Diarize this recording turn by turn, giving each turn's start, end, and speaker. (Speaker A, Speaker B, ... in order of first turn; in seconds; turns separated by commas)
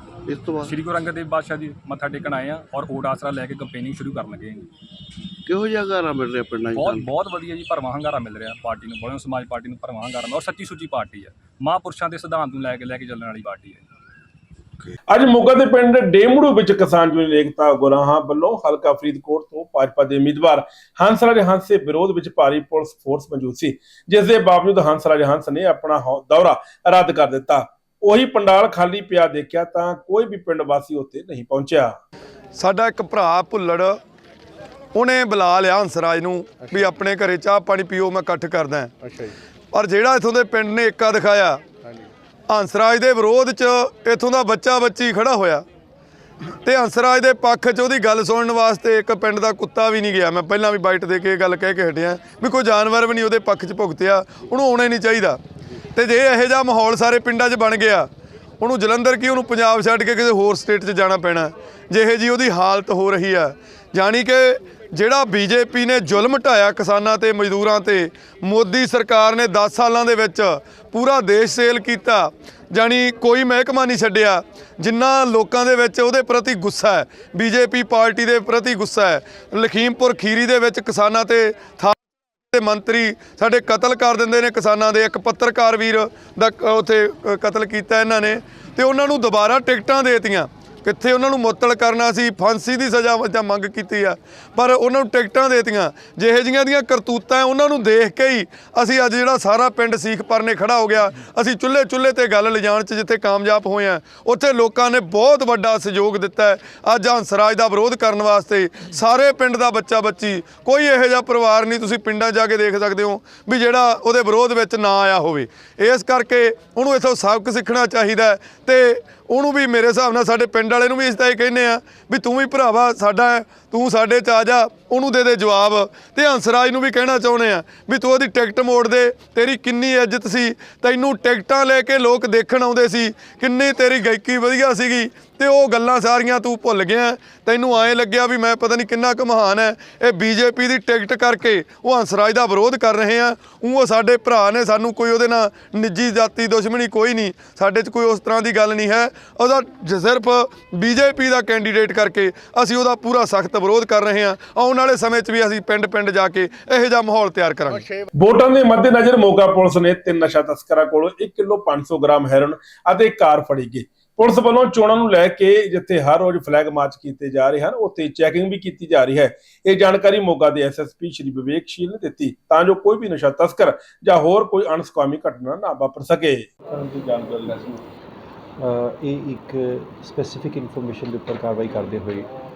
Speaker A: 0.3-0.8, Speaker B: 0.6-4.7, Speaker A: 5.5-7.1, Speaker B: 6.7-13.8, Speaker C: 15.1-32.0, Speaker D: 32.5-34.0, Speaker D: 34.9-38.9, Speaker D: 39.7-41.6, Speaker D: 42.5-45.6, Speaker D: 46.6-55.4, Speaker D: 55.9-58.1, Speaker D: 58.6-82.0, Speaker D: 82.5-157.9, Speaker C: 158.1-176.5, Speaker E: 178.6-182.3